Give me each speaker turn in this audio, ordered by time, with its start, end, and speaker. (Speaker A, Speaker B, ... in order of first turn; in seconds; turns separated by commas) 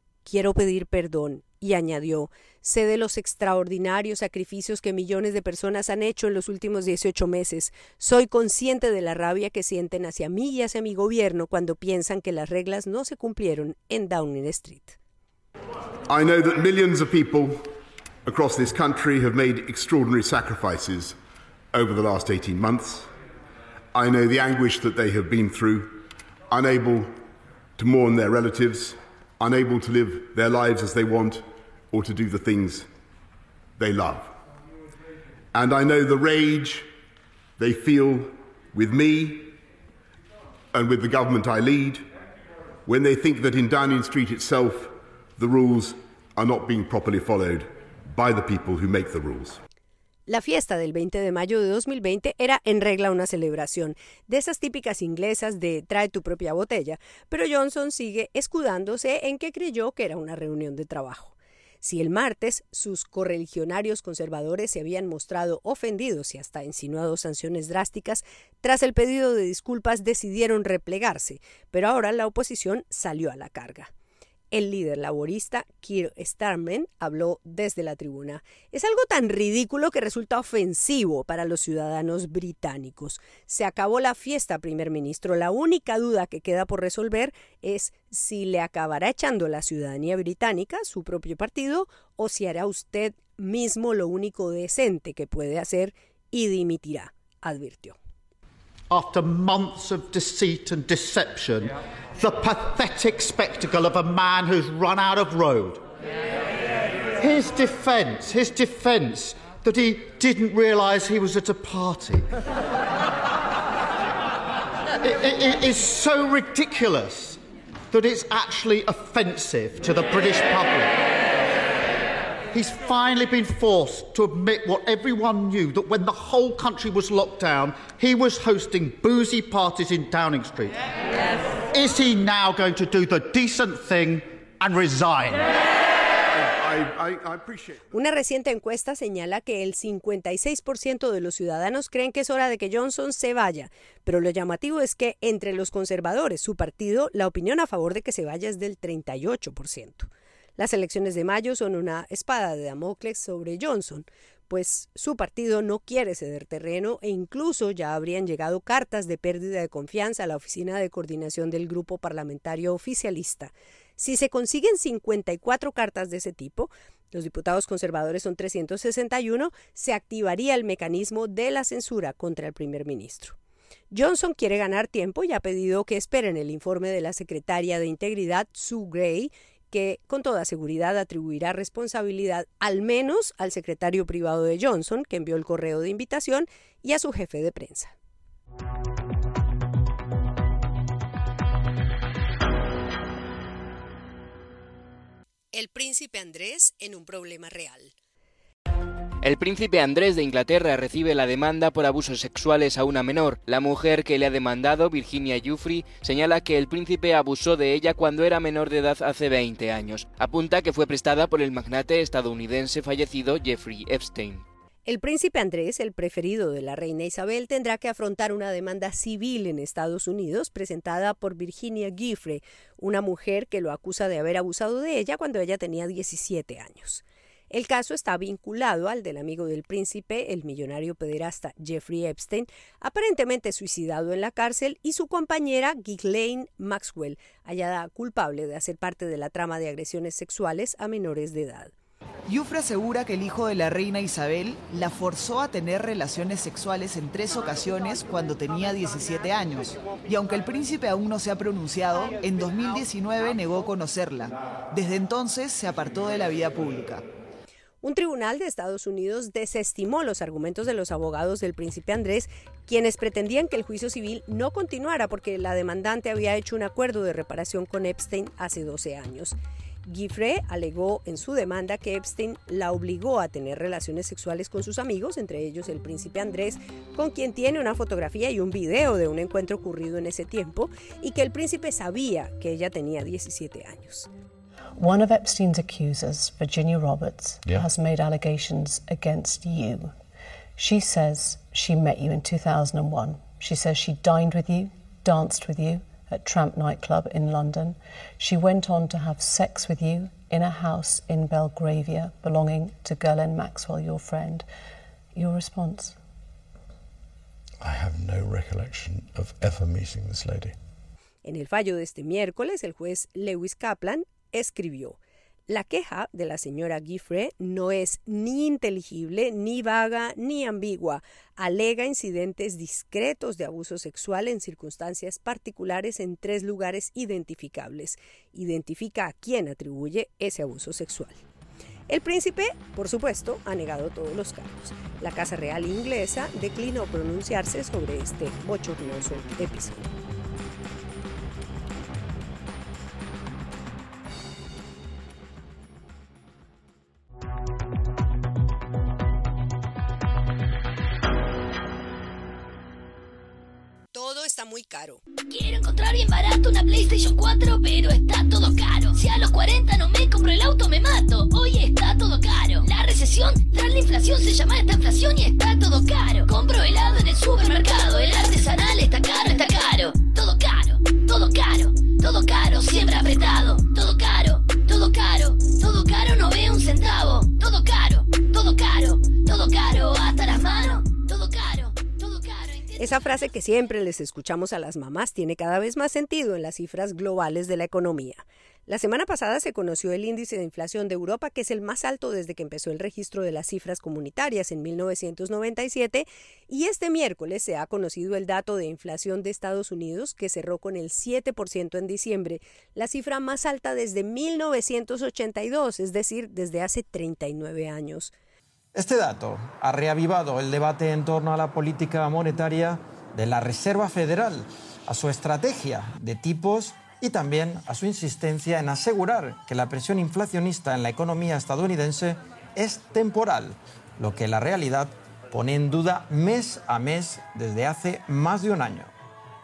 Speaker A: 0.2-15.0, Speaker B: 16.1-17.7, Speaker B: 18.3-21.2, Speaker B: 21.7-23.1, Speaker B: 23.9-27.2, Speaker B: 27.8-32.9, Speaker B: 33.8-34.3, Speaker B: 35.5-36.9, Speaker B: 37.6-39.5, Speaker B: 40.7-42.0, Speaker B: 42.9-49.6, Speaker A: 50.3-73.9, Speaker A: 74.5-98.0, Speaker C: 98.9-105.8, Speaker C: 107.2-112.2, Speaker C: 115.1-117.4, Speaker C: 117.9-120.9, Speaker C: 122.6-130.8, Speaker C: 131.7-135.4, Speaker B: 136.4-137.8, Speaker A: 137.9-173.4, Speaker A: 173.9-187.9, Speaker A: 195.5-197.9, Speaker D: 199.2-214.4, Speaker A: 214.9-241.7, Speaker E: 242.3-257.1, Speaker A: 257.8-284.1, Speaker F: 284.8-289.9, Speaker F: 290.6-304.5, Speaker F: 305.1-305.9, Speaker G: 307.6-310.6, Speaker A: 311.2-331.2, Speaker A: 331.9-339.9, Speaker A: 353.9-355.0, Speaker H: 355.3-383.2, Speaker A: 382.8-408.1, Speaker I: 408.7-428.9